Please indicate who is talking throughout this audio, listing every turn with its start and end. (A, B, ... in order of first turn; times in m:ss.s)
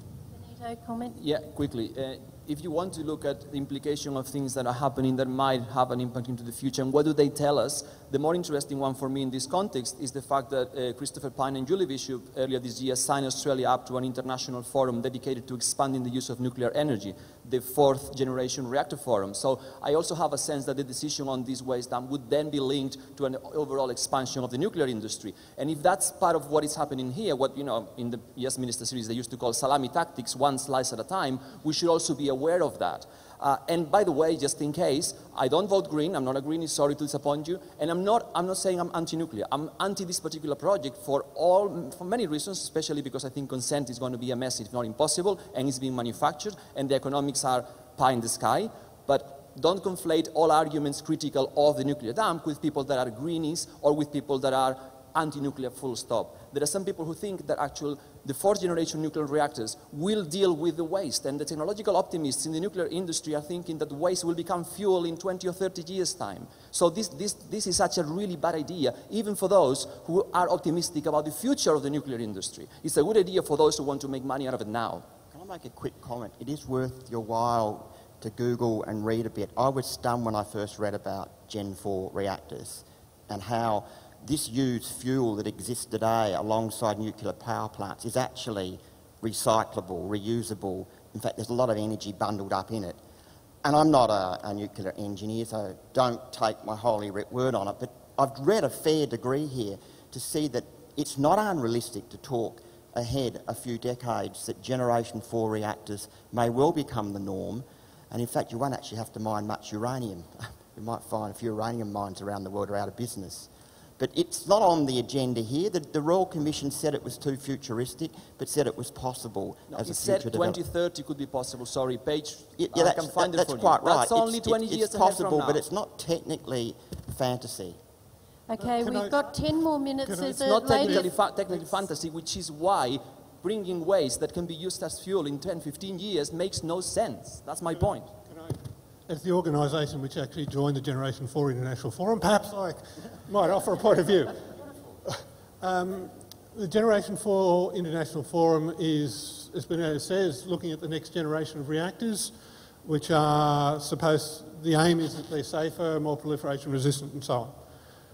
0:00.3-0:01.2 A
0:01.2-1:15.1 B
1:15.3-1:33.0 C
1:33.6-1:53.5 C
1:54.0-2:00.6 C
1:59.7-2:05.6 B
2:02.6-2:07.8 C
2:08.5-2:11.1 A
2:08.6-2:09.3 D
2:10.1-2:11.1 D
2:10.3-2:18.1 B
2:17.8-2:18.6 D
2:19.1-2:24.4 D
2:25.1-2:37.6 D